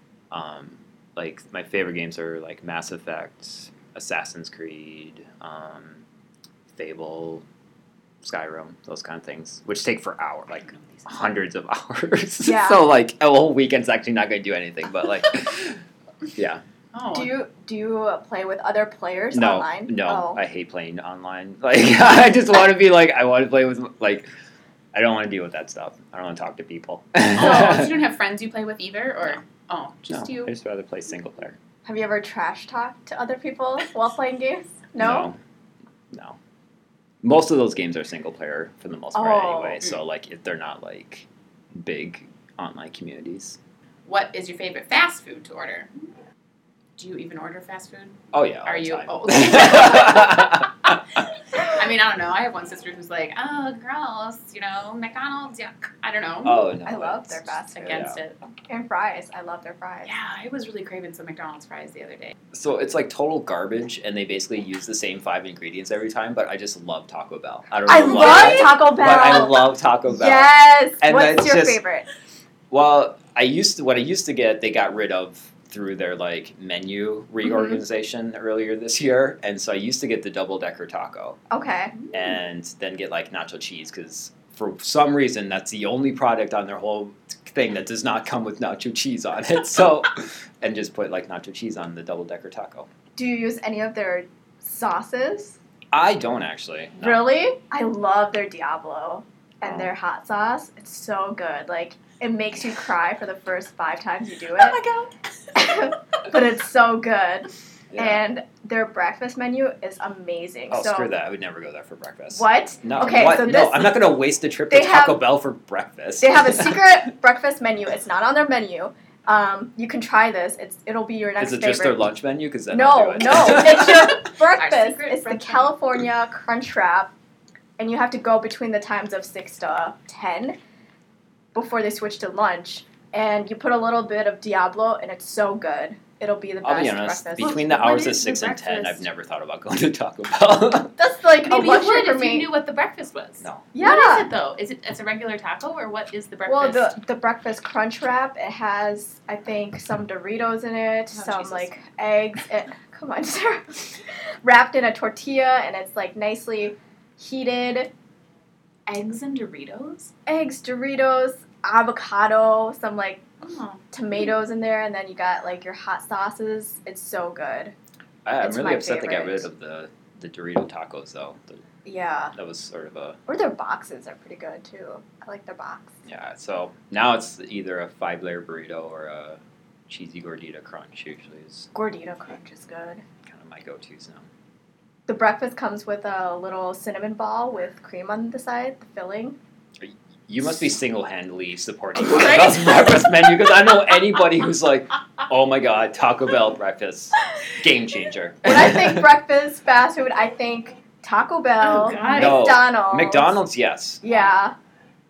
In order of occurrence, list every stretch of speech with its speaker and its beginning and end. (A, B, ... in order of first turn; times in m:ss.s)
0:00.3-0:06.0 A
0:06.7-0:07.4 A
0:08.2-0:15.8 A
0:10.7-0:11.1 B
0:12.4-0:12.8 C
0:16.4-0:16.6 A
0:16.9-0:17.4 B
0:17.1-0:20.4 C
0:19.3-0:24.3 A
0:24.9-0:28.0 A
0:27.3-0:30.5 B
0:30.1-0:31.6 A
0:31.8-0:35.3 C
0:35.0-0:35.4 A
0:36.1-0:36.4 A
0:37.2-0:43.6 A
0:39.1-0:39.9 C
0:44.0-0:45.9 B
0:47.0-0:56.7 B
0:48.3-0:51.0 A
0:56.4-0:58.2 A
0:56.8-0:58.1 C
0:57.7-0:58.4 B
0:58.7-1:00.1 C
1:00.0-1:02.3 B
1:02.5-1:11.8 A
1:07.8-1:12.0 C
1:12.7-1:21.4 A
1:17.4-1:17.8 C
1:21.5-1:21.9 C
1:21.9-1:22.4 B
1:22.1-1:32.9 A
1:33.2-1:35.6 C
1:35.9-1:37.3 A
1:37.0-1:44.8 C
1:39.6-1:39.9 A
1:44.5-1:45.1 B
1:45.6-1:51.1 C
1:47.9-1:48.2 A
1:50.7-1:57.0 A
1:52.3-1:54.1 C
1:53.2-1:53.7 B
1:54.7-1:55.3 C
1:56.2-2:02.0 C
2:01.4-2:04.2 A
2:02.7-2:07.1 C
2:04.5-2:05.8 B
2:07.8-2:10.6 C
2:11.6-2:17.8 C
2:16.6-2:20.9 A
2:17.4-2:19.1 B
2:21.0-2:22.6 C
2:21.5-2:27.0 B
2:23.4-2:23.7 A
2:23.7-2:24.3 C
2:26.5-2:37.9 C
2:31.1-2:31.8 B
2:38.9-2:40.1 B
2:40.3-2:43.2 C
2:43.4-2:43.8 B
2:43.9-2:47.7 C
2:48.2-2:51.6 A
2:48.4-2:49.5 B
2:51.8-2:52.3 C
2:52.3-2:53.2 A
2:53.3-2:56.0 C
2:56.1-3:01.7 A
3:01.7-3:03.0 C
3:03.2-3:04.3 A
3:05.1-3:09.4 C
3:09.8-3:19.1 A
3:12.0-3:13.0 B
3:18.4-3:23.4 C
3:21.6-3:22.6 B
3:22.1-3:24.0 A
3:24.0-3:24.6 C
3:24.0-3:24.4 B